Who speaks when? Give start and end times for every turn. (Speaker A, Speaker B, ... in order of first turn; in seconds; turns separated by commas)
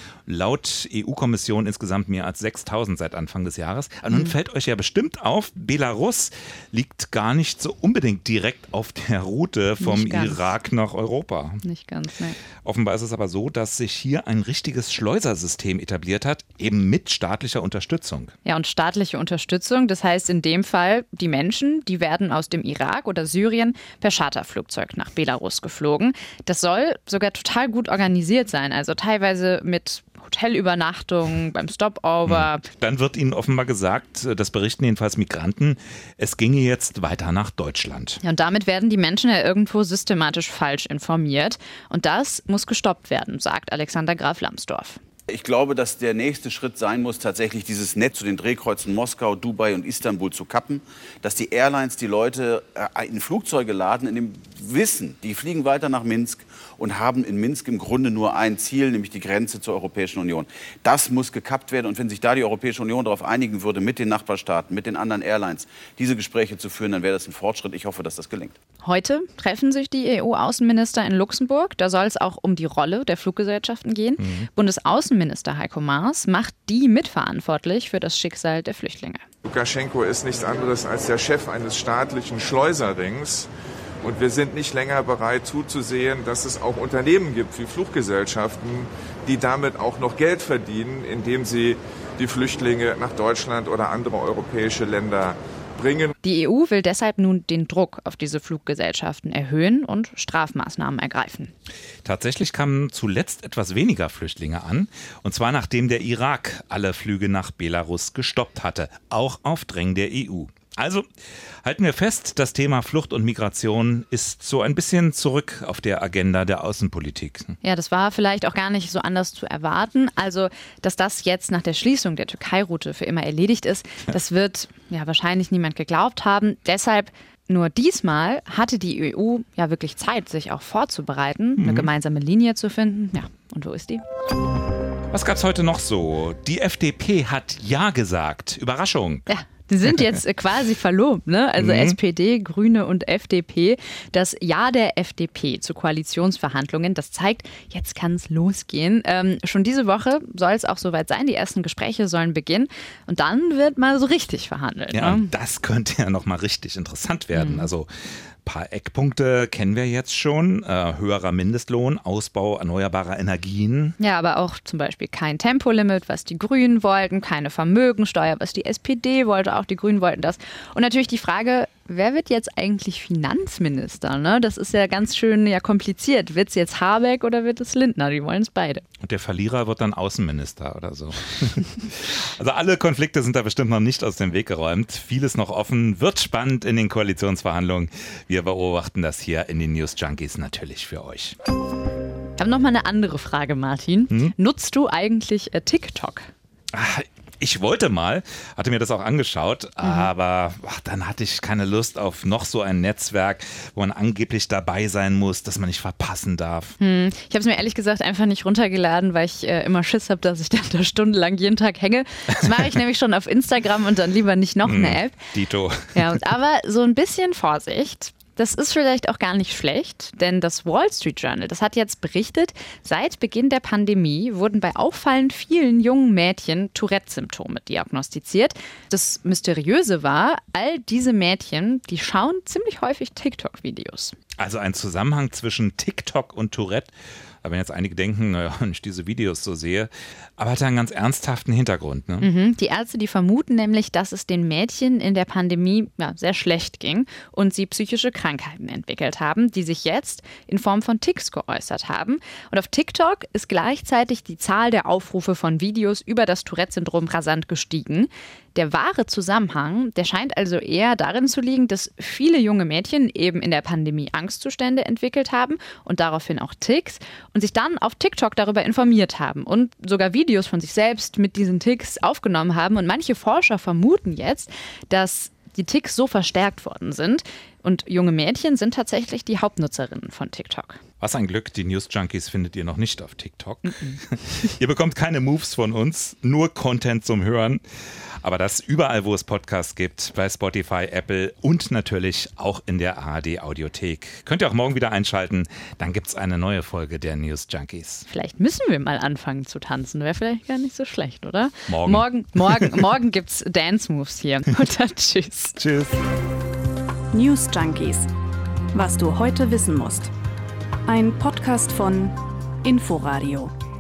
Speaker A: 0.3-11.6, Speaker B: 9.8-10.5, Speaker B: 11.6-12.3, Speaker A: 12.7-18.3, Speaker B: 18.4-32.6, Speaker A: 32.2-38.2, Speaker B: 38.2-45.0, Speaker C: 45.3-68.5, Speaker B: 68.8-79.2, Speaker A: 74.2-74.5, Speaker D: 79.5-83.5, Speaker D: 84.0-96.1, Speaker B: 96.2-101.5, Speaker A: 102.0-111.0, Speaker A: 111.6-117.6, Speaker B: 117.6-134.0, Speaker A: 131.6-131.9, Speaker A: 135.1-139.3, Speaker B: 139.3-155.3, Speaker A: 141.6-142.0, Speaker A: 154.9-157.9, Speaker B: 157.3-157.7, Speaker A: 158.4-164.0, Speaker B: 164.0-178.8, Speaker A: 179.0-191.4, Speaker B: 192.4-196.3, Speaker A: 196.7-206.8, Speaker B: 199.8-200.1, Speaker B: 206.8-215.3, Speaker A: 214.6-215.9, Speaker B: 215.9-234.2, Speaker A: 234.4-242.3, Speaker B: 242.2-280.8, Speaker A: 281.0-287.6, Speaker A: 288.2-298.1, Speaker B: 298.1-305.6, Speaker A: 301.7-302.4, Speaker A: 305.6-306.0, Speaker E: 307.1-308.1, Speaker E: 308.7-310.1, Speaker E: 310.9-313.5